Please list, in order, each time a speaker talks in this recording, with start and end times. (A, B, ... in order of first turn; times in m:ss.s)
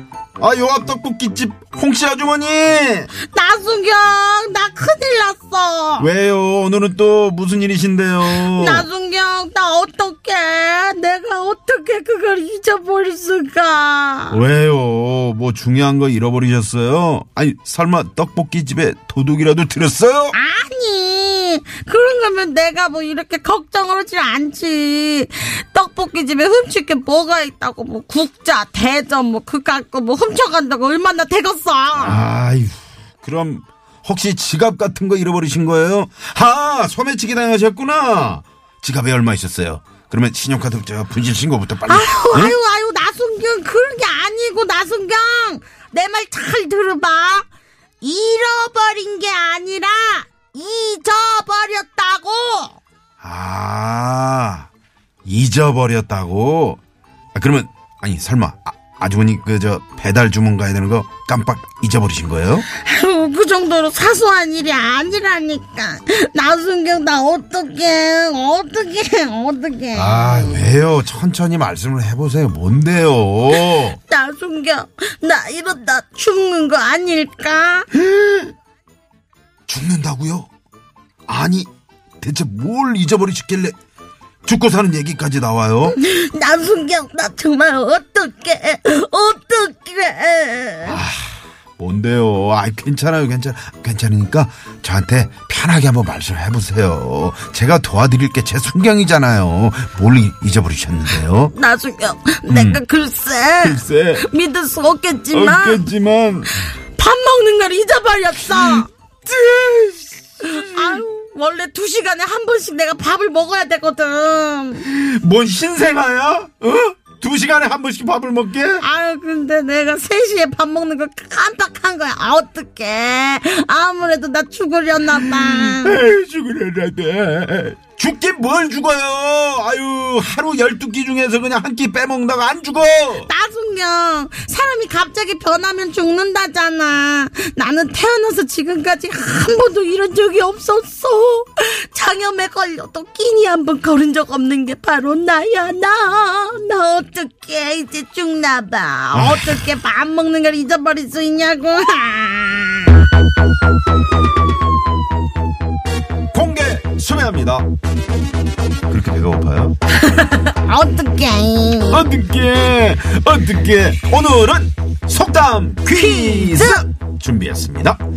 0:00.4-0:03.1 A
0:03.3-0:06.1 B
0:06.0-0:08.9 A
0:08.2-0:14.4 B
0:14.3-0:20.4 A
0:20.3-0:32.2 B
0:32.0-0:42.6 A
0:41.9-0:47.5 B
0:48.0-0:52.8 B
0:53.2-0:54.7 A
0:55.2-0:56.8 A
0:57.3-1:02.7 A
1:02.7-1:10.7 B
1:09.9-1:14.0 A
1:13.5-1:17.9 B
1:18.0-1:18.5 A
1:19.7-1:20.5 A
1:21.3-1:21.7 A
1:22.2-1:23.8 A
1:24.4-1:26.0 A
1:25.8-1:31.0 B
1:30.8-1:41.5 A
1:41.5-1:45.9 B
1:42.5-1:42.8 A
1:43.6-1:44.2 A
1:45.3-1:46.5 A
1:47.0-1:48.9 B
1:48.5-1:51.0 A
1:50.4-1:54.9 B
1:54.8-1:58.8 A
1:58.8-2:06.0 B
2:05.1-2:13.3 A
2:13.2-2:32.9 B
2:29.1-2:29.7 A
2:36.3-2:37.6 A
2:38.9-2:39.8 A
2:40.0-2:42.1 B
2:41.9-2:48.0 A
2:45.9-2:46.8 B